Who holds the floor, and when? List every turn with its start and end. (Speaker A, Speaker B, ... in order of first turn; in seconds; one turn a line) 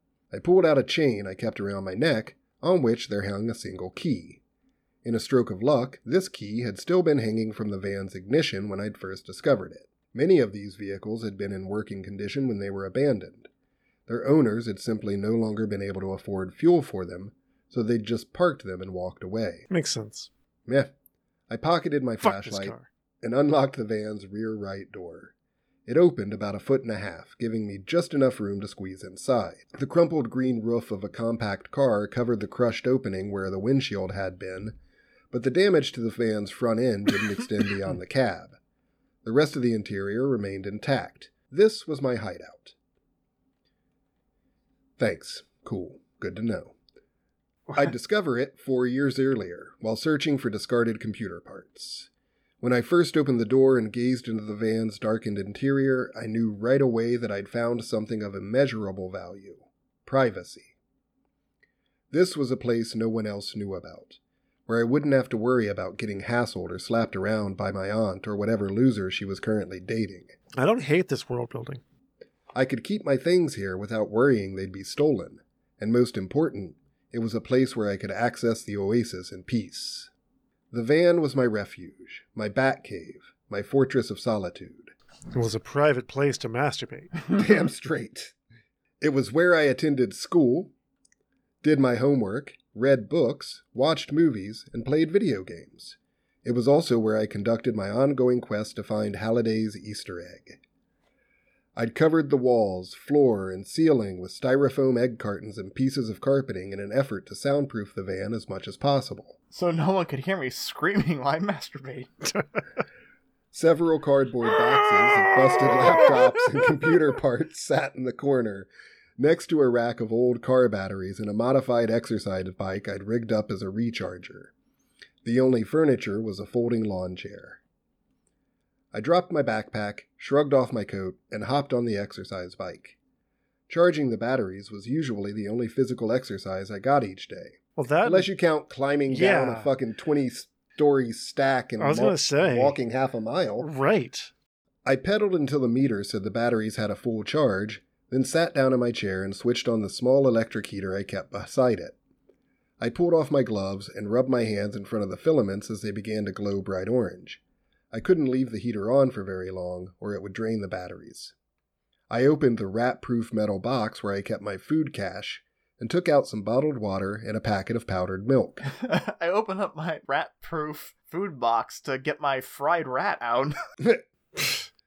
Speaker A: 0.3-4.4
Speaker A: 5.0-13.5
Speaker A: 14.1-19.7
Speaker B: 19.7-20.3
Speaker A: 21.5-25.3
Speaker B: 22.2-22.9
Speaker A: 25.9-34.8
Speaker A: 35.3-38.5
Speaker A: 39.2-42.7
Speaker A: 45.0-46.7
Speaker A: 47.7-52.1
Speaker A: 52.6-60.7
Speaker A: 62.1-70.3
Speaker B: 70.5-71.8
Speaker A: 72.5-80.1
Speaker A: 80.7-84.9
Speaker B: 85.3-87.2
Speaker A: 87.3-88.3
Speaker A: 89.0-90.7
Speaker A: 91.6-100.6
Speaker A: 101.8-109.4
Speaker C: 109.5-112.3
Speaker A: 113.5-124.5
Speaker A: 125.2-127.6
Speaker A: 128.9-133.0
Speaker A: 133.7-143.7
Speaker B: 137.8-138.3
Speaker B: 139.1-139.7
Speaker B: 141.8-142.8
Speaker B: 143.6-144.3
Speaker A: 144.8-151.9
Speaker A: 152.8-157.4
Speaker A: 157.9-161.3
Speaker A: 162.1-168.6
Speaker C: 168.6-173.5
Speaker A: 173.8-174.5